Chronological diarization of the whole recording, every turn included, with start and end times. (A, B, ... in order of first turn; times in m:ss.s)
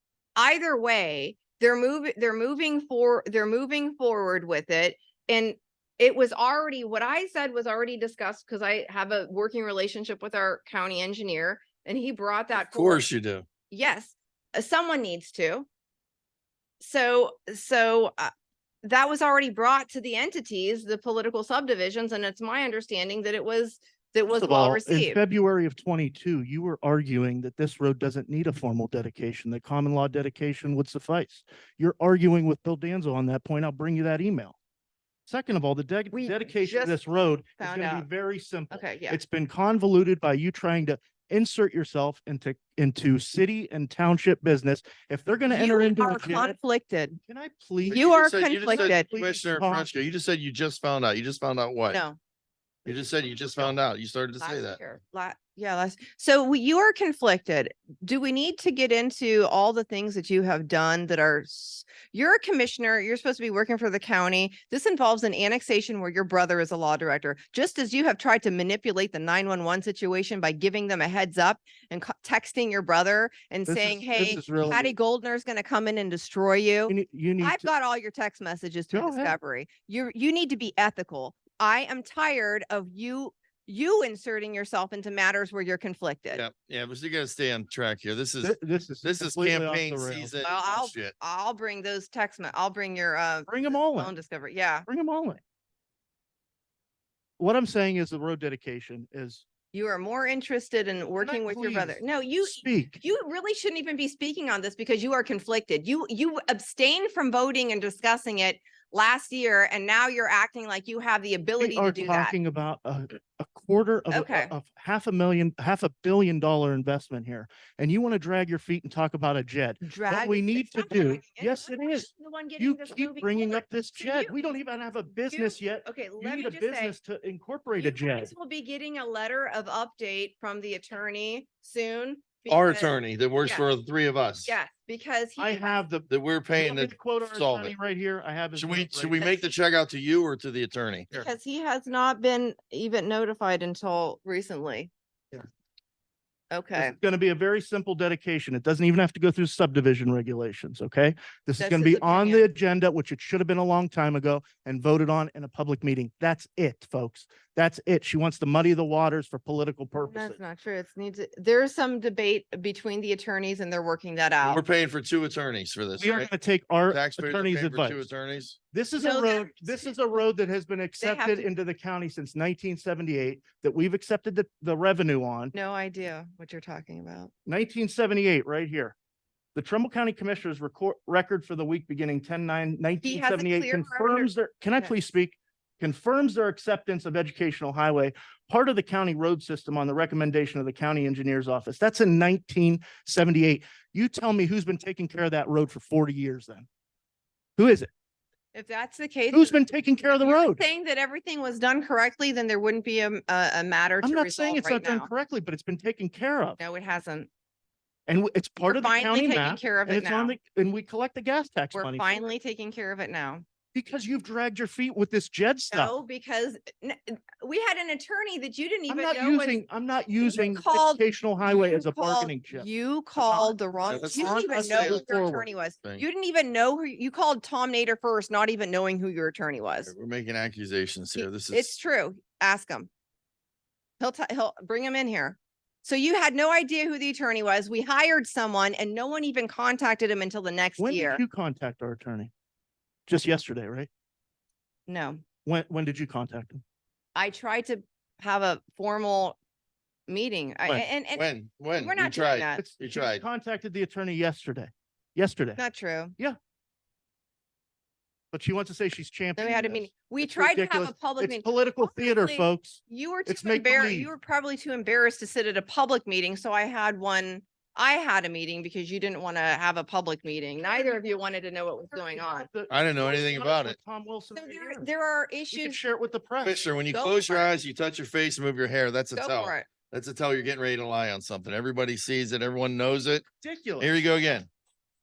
0:00.4-0:13.0 A
0:12.5-0:13.4 B
0:13.7-0:15.7 A
0:16.8-0:18.3 A
0:18.8-0:25.2 A
0:24.3-0:34.6 C
0:35.3-0:46.5 C
0:36.1-0:37.0 A
0:37.6-0:38.1 A
0:38.7-0:39.2 A
0:45.5-0:47.2 A
0:47.2-0:48.0 C
0:47.9-0:52.0 B
0:47.9-0:49.1 A
0:48.6-0:49.9 C
0:51.9-0:52.2 A
0:52.8-0:54.8 B
0:54.4-1:26.4 A
1:13.7-1:14.9 C
1:16.9-1:17.7 C
1:18.9-1:19.4 C
1:26.3-1:31.1 B
1:28.4-1:30.4 C
1:30.4-1:34.8 A
1:33.5-1:34.1 C
1:34.9-1:35.4 C
1:37.4-1:39.4 C
1:39.7-1:52.3 A
1:41.2-1:43.0 C
1:51.6-2:08.3 C
1:54.1-1:54.5 A
1:59.8-2:04.6 A
2:05.3-2:06.9 A
2:07.8-2:13.7 A
2:12.5-2:14.5 B
2:14.4-2:15.7 A
2:15.4-2:19.2 C
2:16.1-2:17.7 B
2:18.5-2:21.1 B
2:19.2-2:19.5 A
2:21.1-2:24.9 A
2:26.5-2:27.0 A
2:26.7-2:40.4 C
2:31.6-2:32.4 A
2:40.0-2:44.6 A
2:44.4-2:46.3 B
2:46.0-2:48.0 C
2:46.9-2:48.6 B
2:48.7-2:55.5 C
2:49.0-2:50.0 A
2:51.0-2:51.5 A
2:55.5-2:57.3 A
2:57.4-2:58.9 C
2:59.5-3:16.7 C
3:03.0-3:04.9 A
3:17.6-3:17.9 C
3:18.5-3:19.6 A
3:19.3-3:20.6 C
3:20.2-3:25.1 A
3:24.0-3:26.6 C
3:26.6-3:27.3 A
3:28.1-3:32.3 C
3:28.6-3:30.4 A
3:31.7-3:33.4 A
3:33.7-3:35.9 C
3:35.7-3:39.6 A
3:38.9-3:43.6 C
3:40.2-3:49.9 A
3:43.8-3:45.1 B
3:44.1-3:45.5 C
3:49.8-3:51.7 B
3:51.2-3:52.9 A
3:54.0-4:01.2 A
4:00.8-4:02.3 C
4:03.1-4:03.9 C
4:04.9-4:05.2 A
4:05.4-4:06.6 C
4:07.1-4:09.4 A
4:10.1-4:12.6 A
4:11.2-4:13.2 B
4:12.6-4:15.6 C
4:15.6-4:16.1 A
4:18.3-4:24.1 C
4:19.4-4:32.5 A
4:31.9-4:34.9 C
4:32.7-4:33.8 B
4:34.3-4:35.8 A
4:35.5-4:36.6 C
4:36.4-4:43.2 B
4:36.9-4:37.5 A
4:39.1-4:39.7 A
4:43.4-4:44.0 C
4:43.8-4:44.5 B